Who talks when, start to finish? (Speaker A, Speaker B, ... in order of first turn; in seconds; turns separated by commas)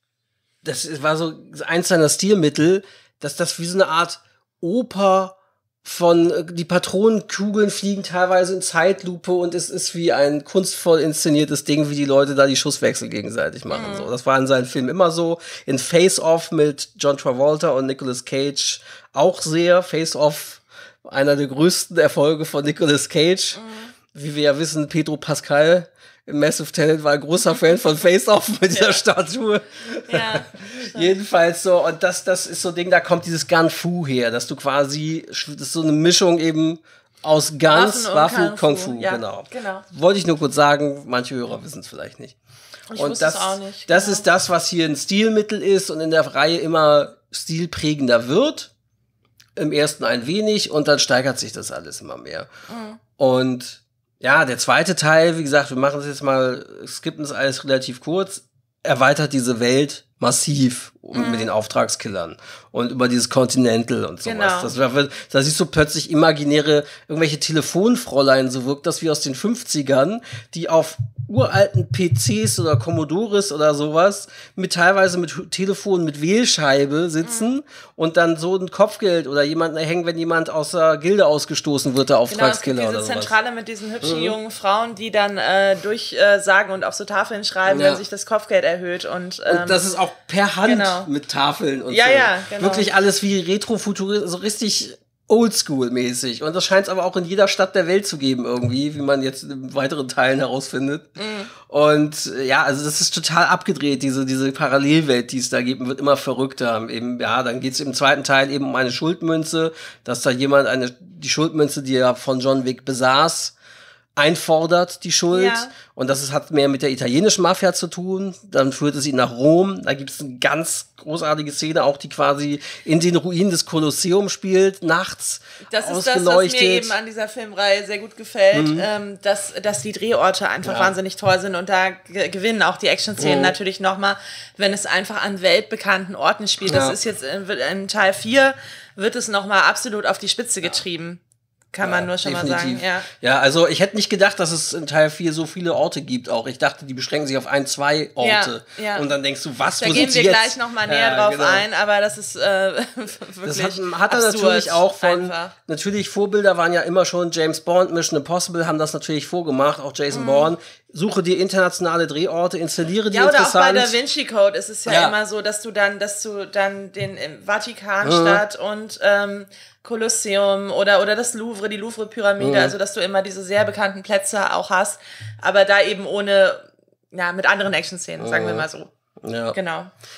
Speaker A: 0.6-23.6, Speaker B: 13.7-14.1, Speaker B: 23.5-23.9, Speaker A: 24.1-42.4, Speaker B: 28.7-29.0, Speaker B: 30.1-31.1, Speaker B: 37.7-39.8, Speaker B: 42.9-44.2, Speaker A: 43.0-48.7, Speaker A: 49.5-52.5, Speaker B: 52.7-53.0, Speaker A: 53.2-83.3, Speaker B: 61.1-61.5, Speaker B: 64.2-64.7, Speaker B: 77.2-77.5, Speaker B: 82.3-89.8, Speaker A: 84.0-84.3, Speaker A: 87.7-88.0, Speaker A: 89.5-113.5, Speaker B: 90.6-91.1, Speaker B: 91.9-92.9, Speaker B: 101.2-101.5, Speaker A: 114.2-126.9, Speaker B: 115.3-115.7, Speaker B: 125.7-141.2, Speaker A: 128.5-128.9, Speaker A: 130.6-130.9, Speaker A: 133.2-133.5, Speaker A: 136.7-137.0, Speaker B: 141.7-143.1, Speaker A: 141.8-151.7, Speaker B: 148.2-149.1, Speaker B: 149.8-155.5, Speaker A: 153.4-163.9, Speaker B: 160.1-160.5, Speaker B: 163.1-178.9, Speaker A: 164.9-165.1, Speaker A: 168.0-168.4, Speaker A: 172.4-172.7, Speaker A: 178.2-178.7, Speaker A: 179.2-179.6, Speaker B: 179.5-179.9